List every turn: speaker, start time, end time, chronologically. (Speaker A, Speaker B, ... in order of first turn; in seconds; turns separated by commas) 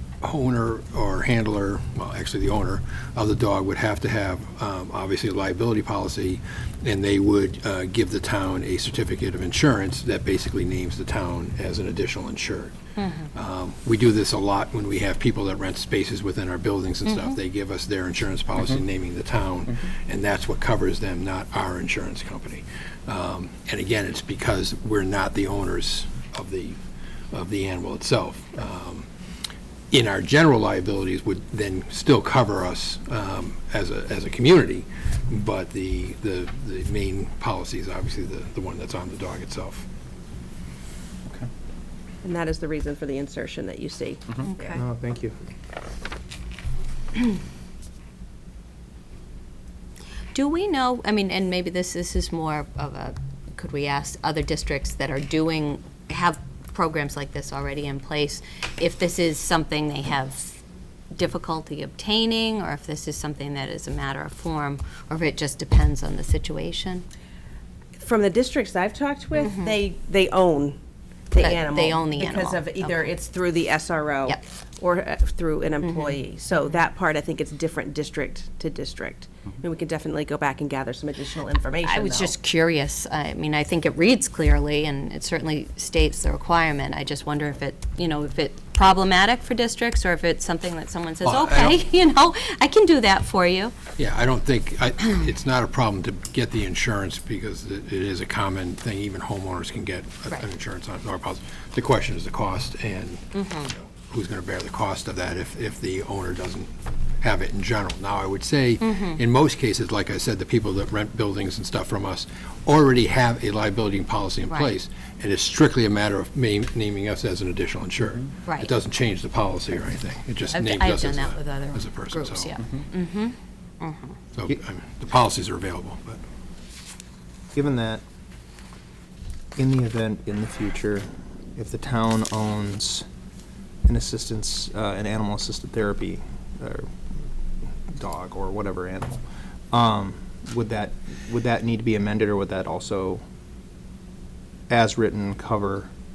Speaker A: 0.2-12.8, Speaker B: 13.0-13.3, Speaker A: 13.3-26.8, Speaker B: 17.1-17.4, Speaker A: 27.3-29.1, Speaker A: 29.9-39.9, Speaker C: 42.2-44.8, Speaker B: 44.5-44.8, Speaker D: 44.7-45.4, Speaker B: 50.3-60.6, Speaker B: 61.1-67.0, Speaker C: 68.0-70.8, Speaker B: 69.3-69.8, Speaker C: 71.3-82.3, Speaker B: 71.3-73.2, Speaker B: 75.8-76.8, Speaker B: 81.8-93.8, Speaker A: 91.2-91.8, Speaker A: 94.0-122.5, Speaker B: 103.3-103.7, Speaker B: 108.8-109.2, Speaker B: 114.5-114.8, Speaker B: 118.5-118.8, Speaker B: 120.5-124.2, Speaker A: 124.3-126.2, Speaker D: 127.5-128.0, Speaker D: 129.6-133.1, Speaker D: 133.9-136.9, Speaker D: 137.9-139.2, Speaker D: 139.7-143.2, Speaker D: 144.7-145.9